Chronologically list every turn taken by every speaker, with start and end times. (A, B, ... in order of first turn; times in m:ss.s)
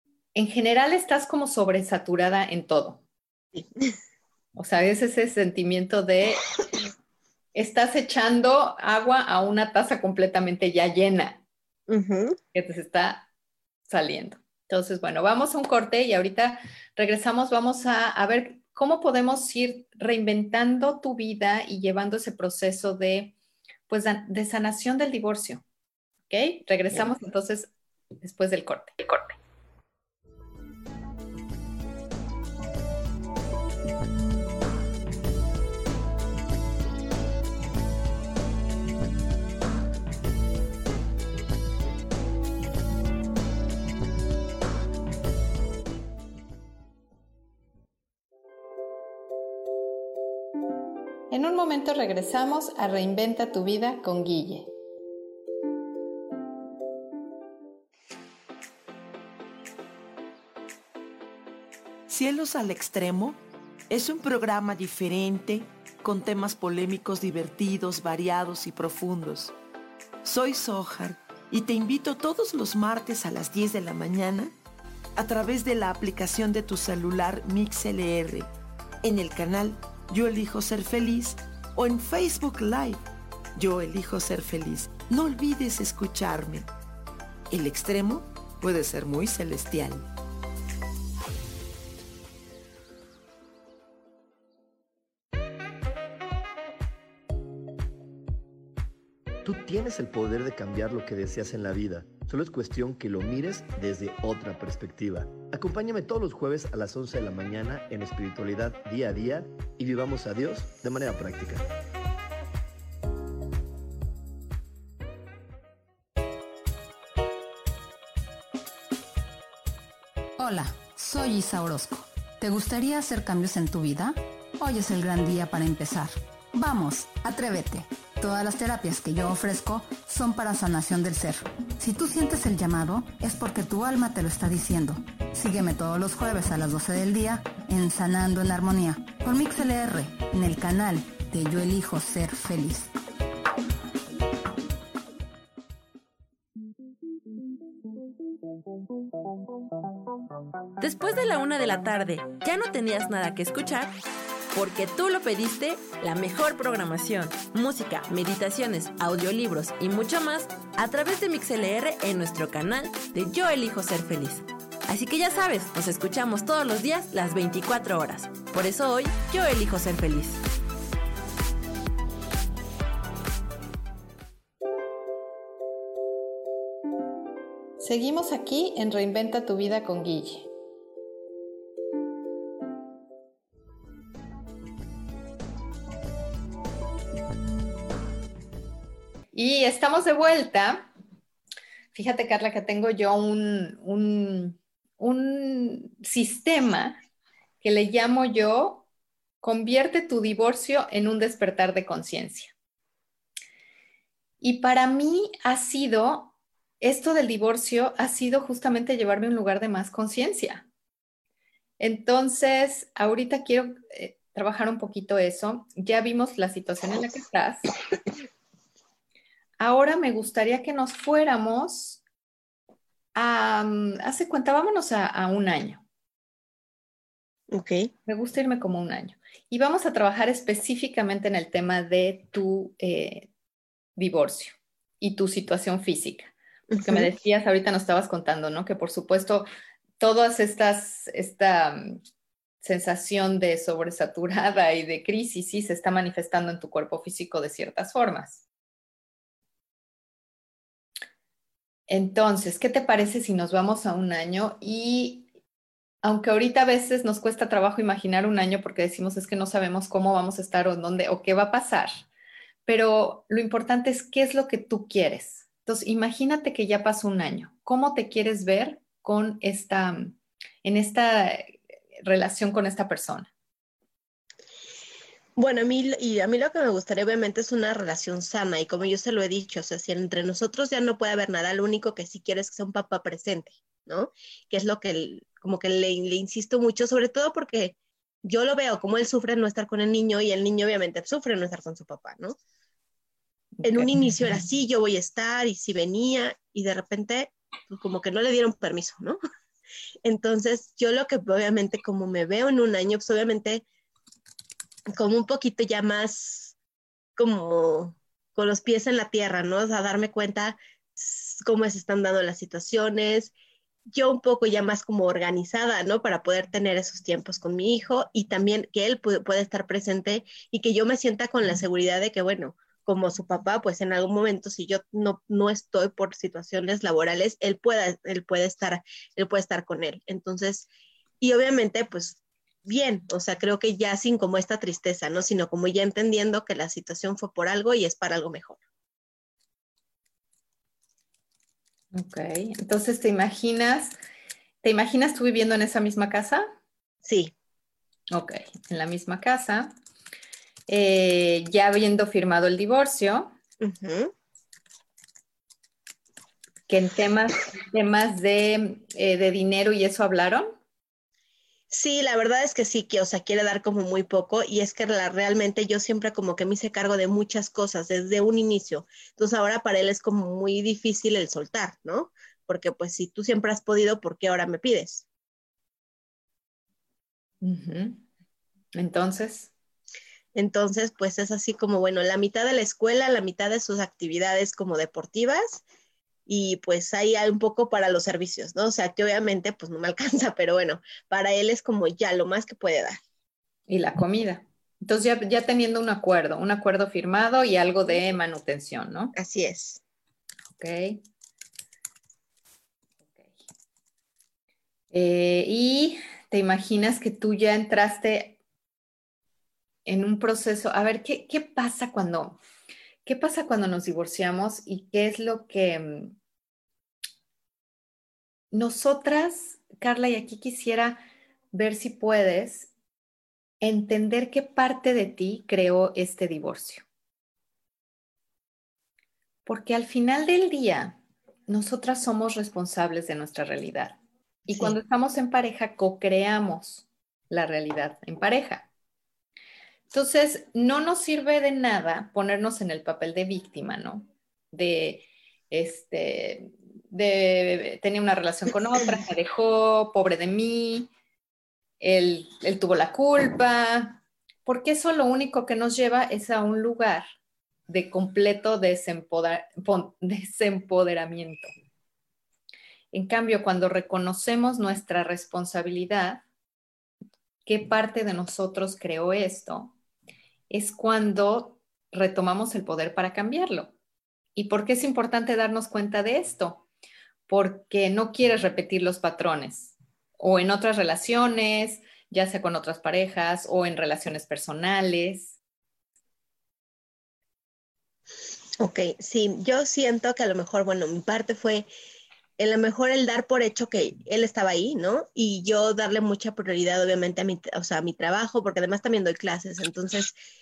0:00.4-0:03.0 A
0:03.5-0:03.9 B
0:04.5-0:06.4 A
0:07.5-0:11.4 A
0:11.9-0:12.4 B
0:12.5-0:13.3 A
0:13.9-0:23.4 A
0:23.9-0:25.6 A
0:26.3-0:27.7 A
0:28.2-0:29.4 A
0:51.3-0:54.7 A
1:02.1-1:03.4 C
1:03.9-1:09.5 C
1:10.2-1:14.5 C
1:15.2-1:18.5 C
1:19.0-1:23.0 C
1:23.6-1:26.7 C
1:27.5-1:30.0 C
1:39.4-1:51.6 D
2:00.4-2:22.9 E
2:30.8-2:33.9 F
2:34.5-2:50.4 F
2:57.8-3:00.5 A
3:09.3-3:10.9 A
3:11.9-3:17.0 A
3:17.6-3:18.8 A
3:19.4-3:22.5 A
3:24.4-3:30.7 A
3:31.8-3:37.7 A
3:39.6-3:42.0 A
3:43.2-3:45.8 A
3:47.5-3:47.9 B
3:48.1-3:53.3 A
3:54.0-3:59.5 A
3:56.7-3:57.1 B
4:00.0-4:02.0 A
4:02.6-4:08.4 A
4:11.9-4:15.3 A
4:16.0-4:21.9 A
4:22.7-4:33.3 A
4:35.4-4:52.4 B
4:53.6-4:54.3 A
4:53.6-4:59.2 B
5:00.0-5:03.6 B
5:04.9-5:06.5 B
5:07.2-5:13.3 B
5:13.9-5:30.7 B
5:31.2-5:38.6 B
5:41.9-5:44.0 A
5:44.6-5:46.5 A
5:47.0-5:47.3 B
5:48.1-5:49.7 A
5:50.7-5:53.3 A
5:53.6-5:54.1 B
5:56.7-6:00.6 A
6:01.7-6:15.0 B
6:17.4-6:18.0 A
6:18.8-6:19.5 A
6:20.3-6:25.6 B
6:26.3-6:33.0 B
6:33.7-6:39.1 A
6:39.2-6:39.8 B
6:40.5-6:41.0 A
6:43.0-6:43.3 A
6:44.9-6:48.4 A
6:49.8-6:52.4 A
6:53.0-6:56.2 A
6:58.5-7:02.7 A
7:03.6-7:06.8 A
7:09.5-7:18.7 A
7:14.5-7:14.8 B
7:19.9-7:30.9 A
7:31.8-7:37.0 A
7:37.7-7:41.5 A
7:42.9-7:46.2 A
7:47.5-7:49.8 A
7:50.5-7:53.7 A
7:54.3-7:56.7 A
7:57.3-8:05.4 A
8:08.6-8:11.7 B
8:12.4-8:20.1 B